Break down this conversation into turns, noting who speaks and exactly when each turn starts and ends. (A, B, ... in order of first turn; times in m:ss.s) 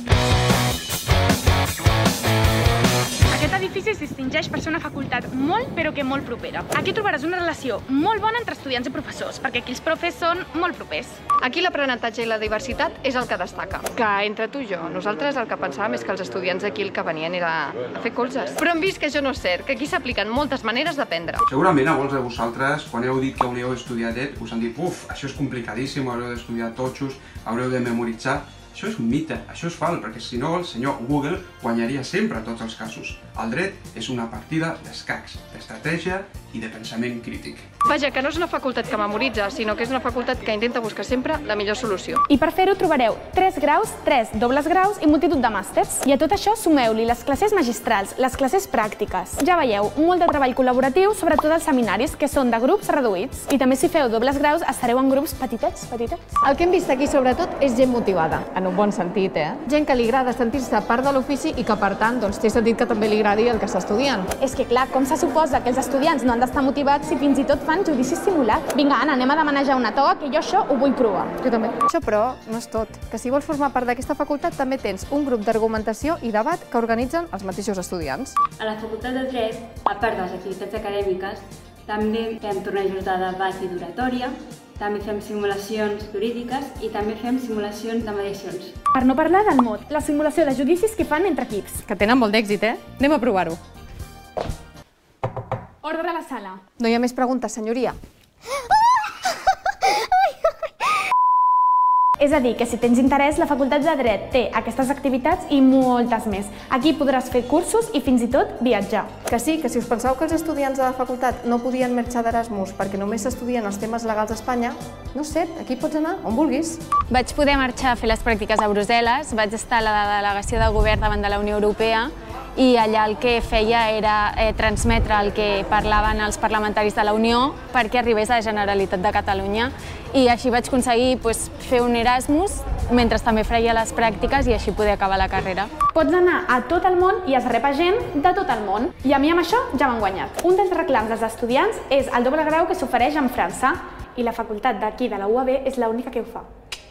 0:03.3-0:11.2 A
0:11.4-0:21.4 B
0:21.5-0:37.7 C
0:37.8-0:42.2 B
0:42.3-0:56.2 A
0:56.4-1:04.3 B
1:04.4-1:11.3 A
1:11.4-1:18.4 B
1:18.6-1:28.8 D
1:28.9-1:31.8 A
1:31.8-1:33.6 B
1:35.8-1:36.6 A
1:36.8-1:38.0 B
1:42.2-1:49.1 A
1:49.3-1:56.8 B
1:57.1-2:15.7 E
2:15.9-2:26.5 A